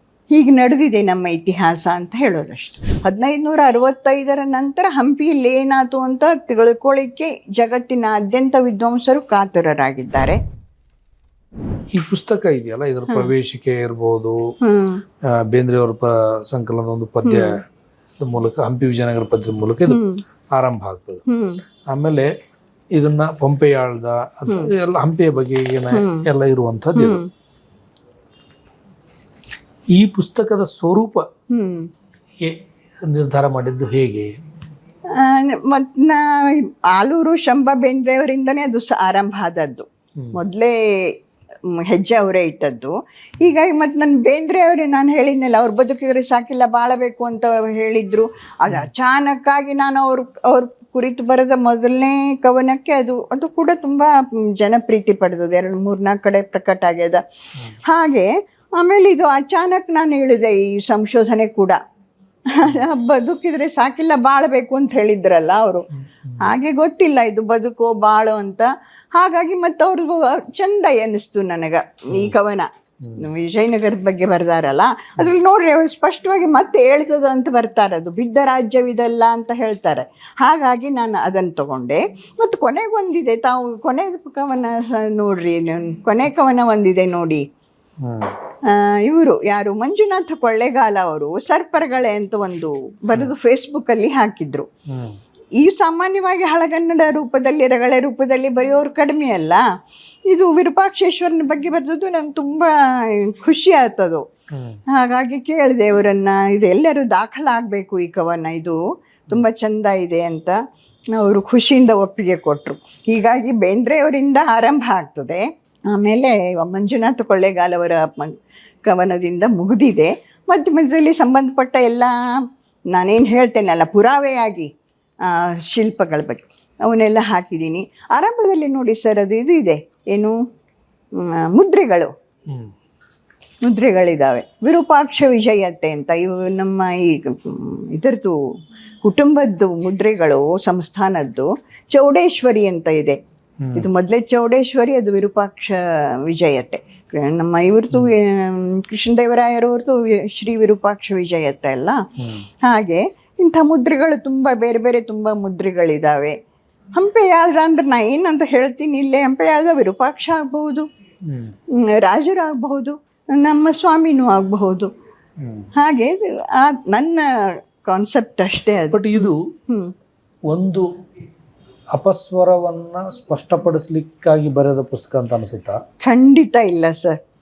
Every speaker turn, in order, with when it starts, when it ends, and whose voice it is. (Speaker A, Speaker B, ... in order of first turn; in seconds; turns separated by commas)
Speaker A: 0.3-10.4, Speaker B: 11.9-14.4, Speaker A: 14.6-15.0, Speaker B: 15.4-17.6, Speaker A: 17.2-17.6, Speaker B: 18.2-20.0, Speaker A: 19.9-20.2, Speaker B: 20.6-21.2, Speaker A: 21.3-21.6, Speaker B: 21.9-22.3, Speaker B: 23.0-27.2, Speaker A: 25.9-26.2, Speaker A: 26.9-27.3, Speaker B: 29.9-31.2, Speaker A: 31.5-31.9, Speaker B: 32.4-34.3, Speaker A: 35.1-41.1, Speaker A: 41.7-61.8, Speaker A: 62.5-65.9, Speaker A: 66.4-87.4, Speaker B: 88.0-88.3, Speaker A: 88.7-94.7, Speaker B: 94.9-95.2, Speaker A: 95.6-99.6, Speaker A: 100.3-104.2, Speaker B: 104.5-104.8, Speaker A: 104.9-110.6, Speaker A: 111.1-124.7, Speaker A: 125.2-130.4, Speaker A: 131.2-132.1, Speaker A: 133.6-138.4, Speaker A: 139.0-143.2, Speaker B: 143.6-143.9, Speaker A: 143.8-152.0, Speaker B: 152.2-152.5, Speaker A: 152.6-156.3, Speaker A: 156.9-160.9, Speaker B: 161.3-161.5, Speaker A: 161.8-164.9, Speaker B: 165.4-165.7, Speaker A: 165.8-167.2, Speaker A: 167.8-169.9, Speaker B: 168.9-169.4, Speaker B: 170.5-170.8, Speaker B: 171.9-175.8, Speaker A: 176.0-177.2